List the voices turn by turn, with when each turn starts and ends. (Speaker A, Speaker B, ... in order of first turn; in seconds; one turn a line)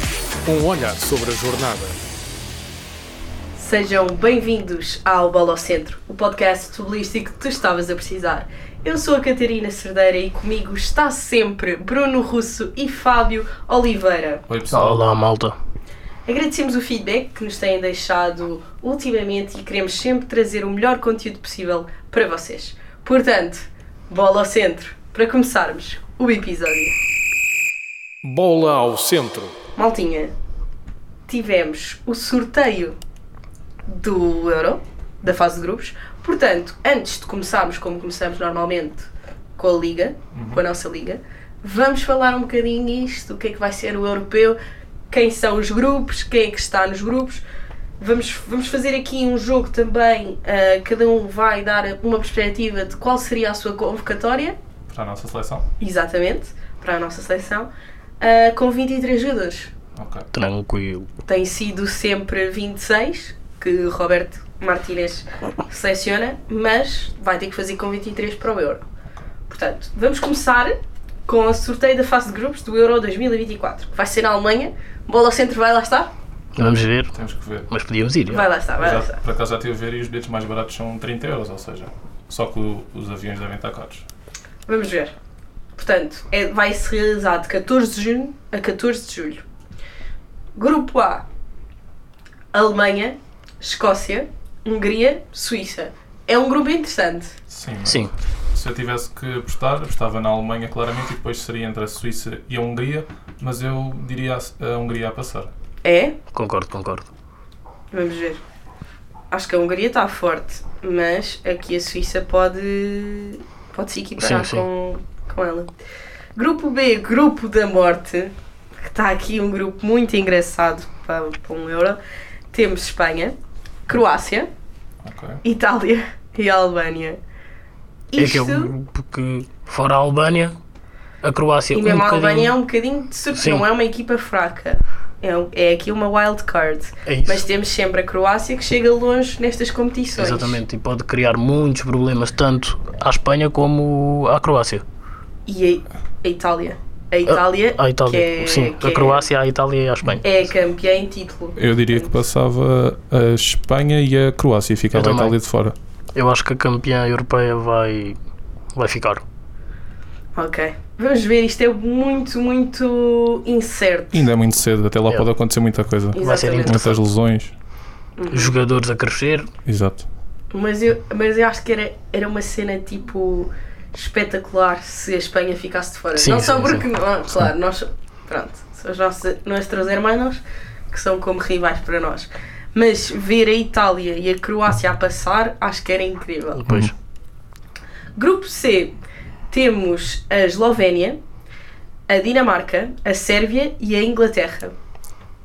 Speaker A: 0.4-2.0
Speaker B: 3.5-14.4
Speaker C: 14.5-15.1
Speaker D: 14.7-15.6
Speaker B: 16.2-26.9
Speaker A: 28.2-29.5
Speaker B: 29.8-30.3
Speaker B: 31.3-33.0
Speaker B: 33.9-44.6
Speaker C: 40.3-40.6
Speaker B: 45.1-47.4
Speaker B: 48.0-54.5
Speaker C: 54.9-55.6
Speaker B: 55.8-57.7
Speaker B: 58.2-59.7
Speaker C: 60.0-60.3
Speaker D: 60.3-61.1
Speaker B: 61.2-68.8
Speaker B: 69.5-76.1
Speaker D: 76.5-77.1
Speaker C: 77.1-77.7
Speaker D: 77.7-78.4
Speaker B: 78.3-79.2
Speaker C: 78.8-84.0
Speaker B: 84.7-85.1
Speaker B: 85.8-89.4
Speaker B: 90.5-91.2
Speaker B: 92.5-97.3
Speaker C: 97.5-105.5
Speaker D: 97.8-98.1
Speaker B: 105.8-106.2
Speaker D: 106.3-107.1
Speaker B: 107.9-108.4
Speaker B: 109.3-115.7
Speaker D: 114.2-114.7
Speaker B: 116.3-122.0
Speaker B: 122.5-123.3
Speaker B: 123.9-124.5
Speaker C: 125.0-125.4
Speaker B: 125.4-127.2
Speaker B: 128.1-128.7
Speaker D: 128.2-130.6
Speaker D: 131.2-132.5
Speaker B: 131.7-140.6
Speaker D: 133.3-133.7
Speaker D: 137.1-137.4
Speaker D: 140.2-144.8
Speaker B: 145.5-149.3
Speaker D: 147.2-150.2
Speaker B: 150.2-152.2
Speaker C: 151.6-155.7
Speaker D: 154.9-155.3
Speaker D: 156.1-158.2
Speaker D: 158.7-159.2
Speaker B: 160.3-164.3
Speaker C: 164.1-167.5
Speaker B: 166.1-166.8
Speaker D: 166.1-167.0
Speaker B: 168.2-168.6
Speaker D: 168.3-169.5
Speaker C: 169.7-170.1
Speaker B: 170.5-186.7
Speaker D: 176.2-176.9
Speaker D: 186.6-186.9
Speaker B: 188.2-188.9
Speaker B: 189.5-191.2
Speaker B: 192.1-194.7